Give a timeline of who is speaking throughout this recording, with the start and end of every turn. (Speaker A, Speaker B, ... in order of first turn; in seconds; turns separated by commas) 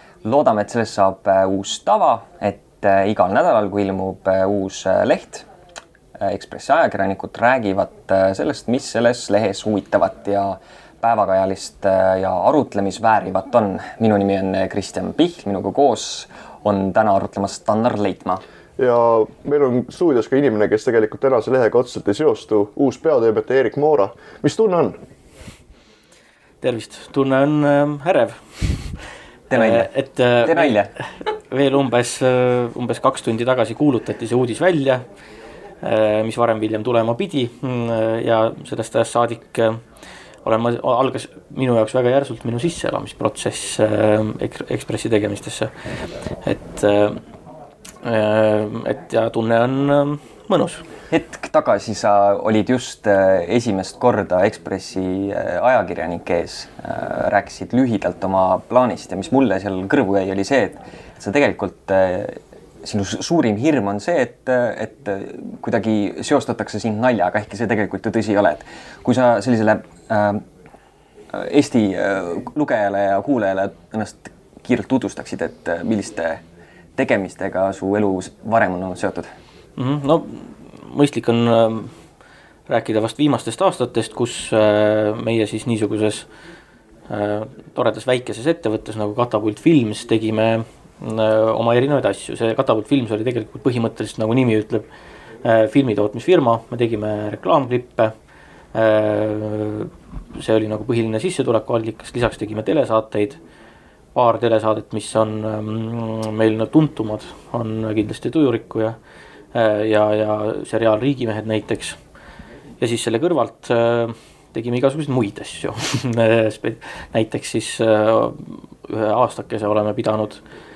Speaker A: 0.2-5.5, Speaker A: 6.2-18.4, Speaker B: 18.8-25.0, Speaker C: 26.6-29.0, Speaker A: 29.5-29.9, Speaker C: 29.5-35.0, Speaker A: 30.4-30.9, Speaker C: 35.8-39.8, Speaker C: 40.4-45.7, Speaker C: 46.4-47.2, Speaker C: 48.0-50.8, Speaker A: 51.1-70.4, Speaker A: 71.3-76.4, Speaker A: 77.0-79.3, Speaker C: 79.8-81.9, Speaker C: 82.7-86.3, Speaker C: 87.1-94.9, Speaker C: 95.4-98.1, Speaker C: 98.7-103.4, Speaker C: 104.1-109.0, Speaker C: 109.5-112.0, Speaker C: 112.8-120.4